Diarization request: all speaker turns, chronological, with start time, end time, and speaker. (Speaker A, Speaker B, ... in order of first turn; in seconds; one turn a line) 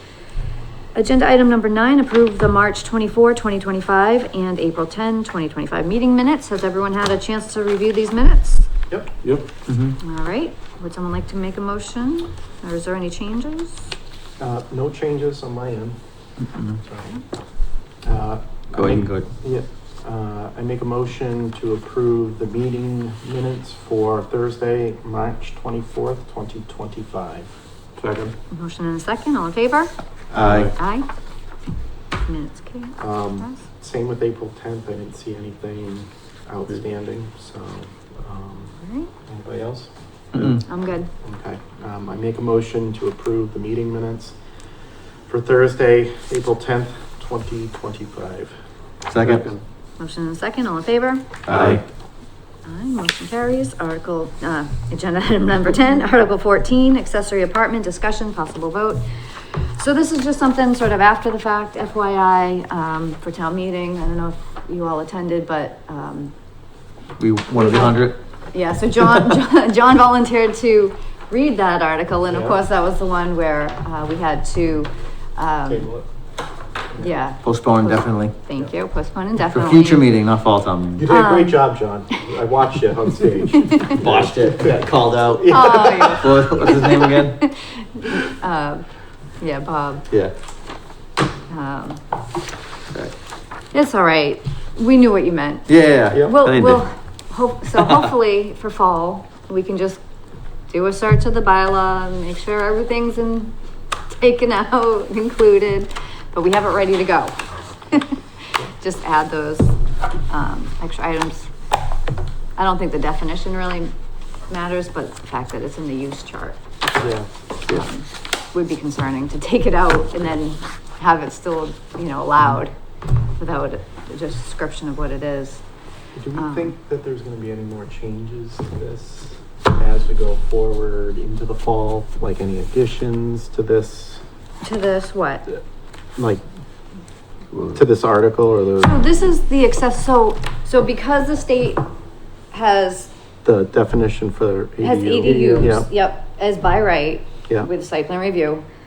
Speaker A: 0.9-8.7
Speaker B: 8.9-9.2
Speaker C: 9.7-10.0
Speaker A: 10.0-13.9
Speaker B: 14.4-16.0
Speaker C: 16.4-16.8
Speaker B: 16.9-17.1
Speaker B: 18.0-28.3
Speaker C: 18.7-19.3
Speaker A: 28.5-29.9
Speaker B: 30.3-30.8
Speaker C: 30.3-30.7
Speaker A: 30.7-31.1
Speaker A: 32.2-33.6
Speaker B: 33.0-38.7
Speaker A: 38.7-39.1
Speaker B: 39.2-40.6
Speaker C: 40.3-40.6
Speaker A: 40.6-41.1
Speaker B: 41.2-44.4
Speaker B: 45.2-48.5
Speaker C: 49.1-49.5
Speaker A: 50.0-51.3
Speaker C: 51.5-51.8
Speaker A: 52.6-66.3
Speaker C: 67.2-68.2
Speaker A: 67.5-75.9
Speaker B: 72.3-72.6
Speaker B: 75.6-76.1
Speaker A: 77.0-80.1
Speaker C: 77.4-78.3
Speaker C: 79.5-81.1
Speaker B: 81.0-84.8
Speaker A: 81.1-81.7
Speaker C: 83.9-87.4
Speaker B: 85.4-86.3
Speaker A: 85.5-88.9
Speaker A: 89.4-90.0
Speaker A: 91.5-92.0
Speaker A: 93.7-100.0
Speaker C: 95.7-96.8
Speaker A: 100.7-103.5
Speaker A: 104.1-109.8
Speaker A: 110.3-111.5
Speaker A: 112.5-113.9
Speaker A: 114.5-117.1
Speaker B: 117.0-117.3
Speaker A: 117.7-125.6
Speaker B: 126.1-134.2
Speaker A: 126.3-126.7
Speaker A: 134.6-135.5
Speaker B: 136.2-136.4
Speaker B: 137.7-138.9
Speaker A: 138.8-141.9
Speaker A: 142.5-143.1
Speaker B: 143.4-145.9
Speaker A: 144.8-148.6